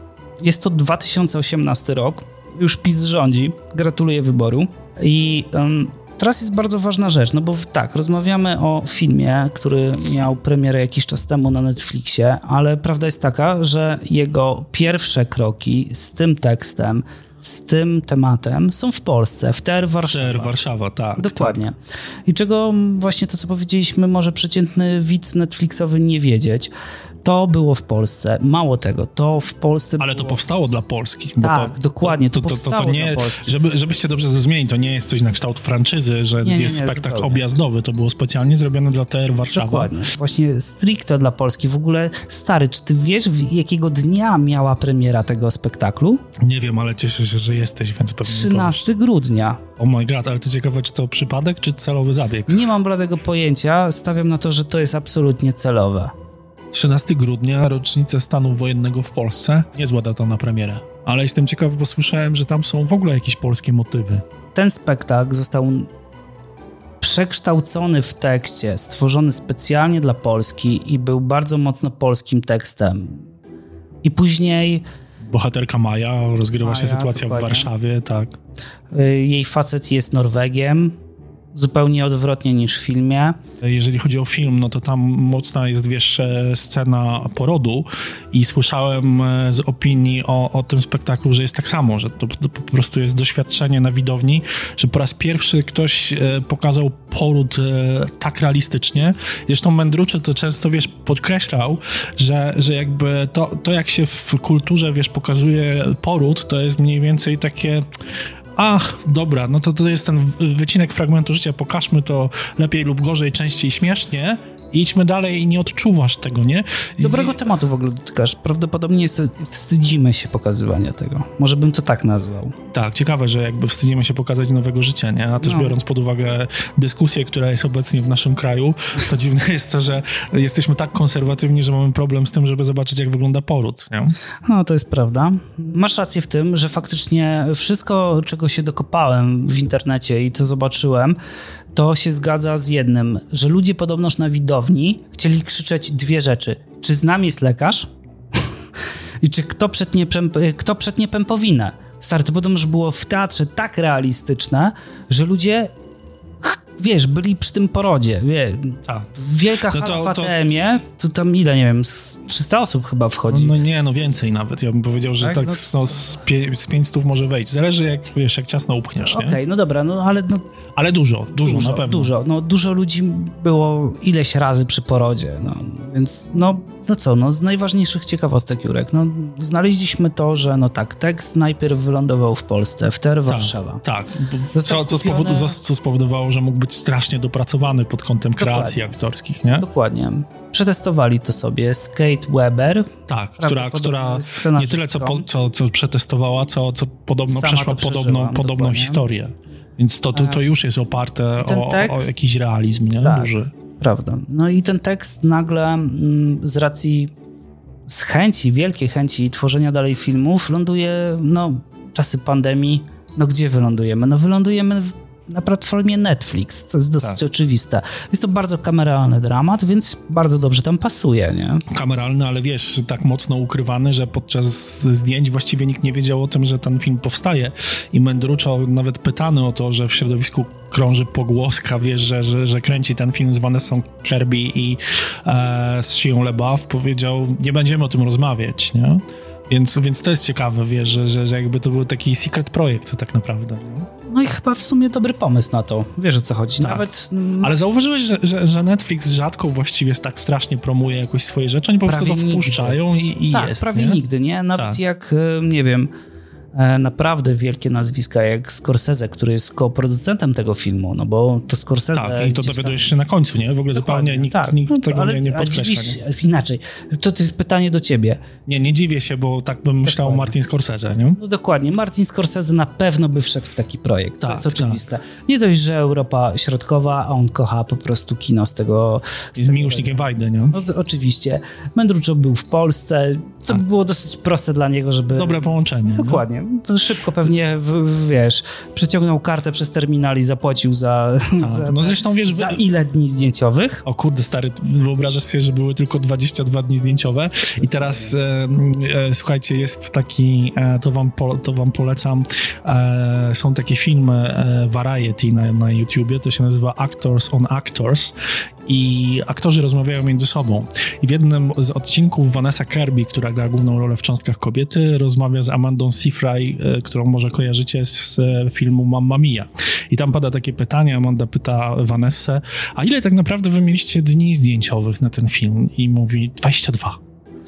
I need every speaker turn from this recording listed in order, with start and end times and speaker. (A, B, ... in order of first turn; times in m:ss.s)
0:00.4-0:20.6 A
0:20.1-0:21.6 B
0:21.2-0:26.7 A
0:27.2-0:30.4 A
0:30.0-0:39.9 B
0:31.4-0:33.5 A
0:36.4-0:37.5 A
0:39.5-0:46.2 A
0:46.4-0:48.9 B
0:48.2-0:49.6 A
0:49.8-0:52.7 B
0:52.5-0:56.1 A
0:56.7-1:04.2 B
1:04.5-1:05.9 A
1:07.0-1:13.3 A
1:14.0-1:14.8 A
1:15.2-1:18.4 B
1:16.6-1:17.7 A
1:18.9-1:21.0 A
1:21.5-1:23.4 A
1:23.6-1:47.9 B
1:48.6-1:57.4 B
1:57.0-2:02.6 A
2:02.7-2:14.2 B
2:05.4-2:05.8 A
2:14.5-2:21.2 A
2:21.7-2:28.4 A
2:29.2-2:35.7 A
2:36.4-2:43.6 A
2:38.9-2:39.1 B
2:39.7-2:40.4 B
2:43.3-2:49.4 B
2:45.2-2:45.7 A
2:49.1-2:50.4 A
2:50.8-2:52.1 B
2:51.4-3:03.8 A
3:03.3-3:09.7 B
3:04.5-3:05.6 A
3:08.4-3:08.9 A
3:09.6-3:15.3 A
3:13.1-3:23.5 B
3:17.3-3:19.0 A
3:20.1-3:20.4 A
3:21.4-3:22.1 A
3:23.0-3:27.1 A
3:27.9-3:41.6 A
3:41.7-4:03.9 B
4:04.0-4:07.5 A
4:06.6-4:06.9 B
4:07.4-4:14.0 B
4:11.9-4:12.8 A
4:13.3-4:15.9 A
4:14.6-4:14.8 B
4:16.6-4:22.9 A
4:21.9-4:26.0 B
4:23.7-4:28.2 A
4:28.5-4:31.2 B
4:29.8-4:30.4 A
4:31.2-4:53.8 A
4:34.2-4:34.8 B
4:39.4-4:40.6 B
4:45.1-4:46.2 B
4:51.4-4:52.6 B
4:53.9-5:08.2 B
4:57.6-4:58.2 A
5:08.7-5:27.0 B